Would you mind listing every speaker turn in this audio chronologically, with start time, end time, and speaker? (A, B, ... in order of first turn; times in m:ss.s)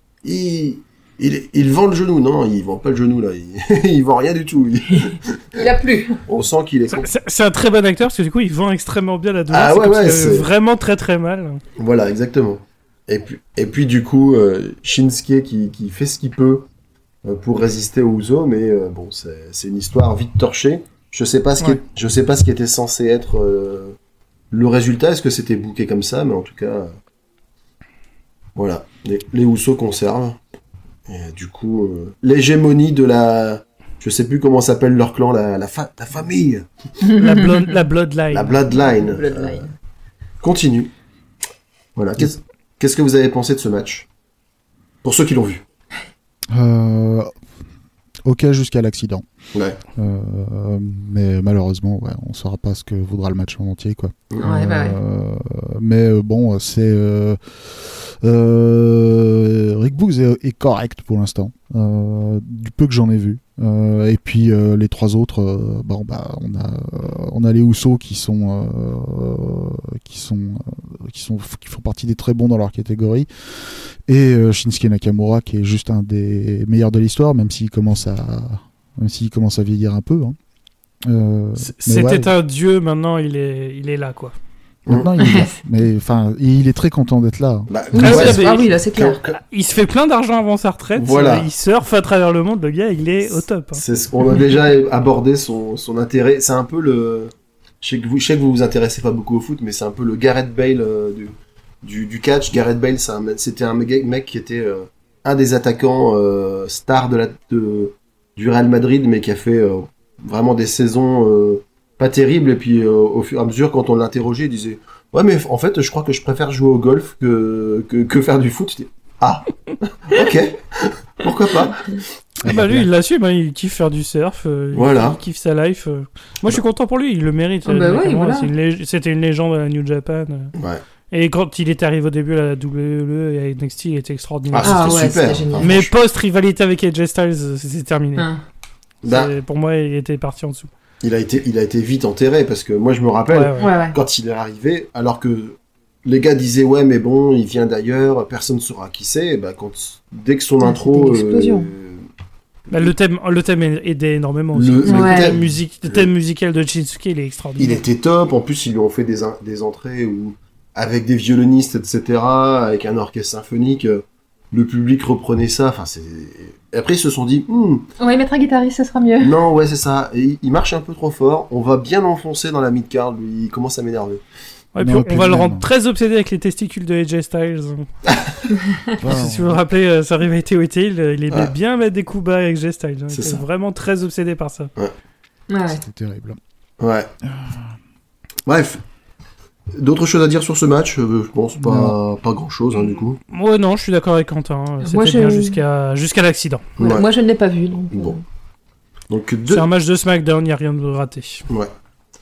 0:00.2-0:05.6 A
0:05.6-0:06.2 B
0:06.3-0:07.1 A
0:06.9-0:11.6 C
0:09.5-0:10.5 A
0:11.8-0:16.7 A
0:17.2-0:24.0 A
0:24.5-0:26.9 A
0:28.6-0:30.4 A
0:31.1-0:36.7 A
0:37.1-0:38.6 C
0:38.3-0:39.6 A
0:38.7-0:39.7 B
0:40.4-0:40.9 A
0:42.0-0:44.1 A
0:45.0-0:45.6 A
0:46.5-0:47.3 D
0:48.2-0:49.2 D
0:49.5-0:49.8 A
0:50.0-1:20.4 D
0:54.4-0:55.0 B
1:21.0-1:22.3 D
1:21.6-1:24.4 C
1:24.9-1:25.2 A
1:24.9-1:27.7 D
1:25.2-1:25.5 B
1:27.7-1:29.4 A
1:27.9-1:29.2 B
1:28.0-1:28.7 C
1:29.3-1:33.8 C
1:31.0-1:31.5 A
1:33.8-2:02.6 A
2:02.4-2:10.5 C
2:02.4-2:02.9 D
2:04.7-2:05.2 A
2:07.7-2:08.5 B
2:10.6-2:10.8 A
2:11.1-2:15.1 C
2:14.5-2:15.9 A
2:14.6-2:15.8 B
2:15.6-2:18.3 C
2:19.0-2:19.3 A
2:19.0-2:20.7 C
2:21.0-2:32.0 A
2:23.3-2:23.7 C
2:23.6-2:24.0 B
2:30.6-2:31.7 B
2:32.7-2:37.8 C
2:34.5-2:36.1 A
2:34.8-2:35.3 B
2:37.6-2:47.9 A
2:48.0-2:49.4 B
2:49.2-2:54.2 A
2:54.7-2:57.9 C
2:54.8-2:55.7 D
2:59.0-2:59.6 D
2:59.0-3:04.7 C
3:03.1-3:03.4 A
3:05.5-3:05.8 B
3:05.7-3:06.4 D
3:06.8-3:07.1 A
3:07.2-3:07.7 D
3:08.5-3:08.8 A
3:09.7-3:13.2 A
3:11.6-3:12.0 D
3:13.3-3:16.6 C
3:14.8-3:15.6 B
3:16.8-3:17.1 A
3:16.8-3:18.2 B
3:17.9-3:18.2 A
3:19.1-3:19.7 A
3:19.5-3:21.4 C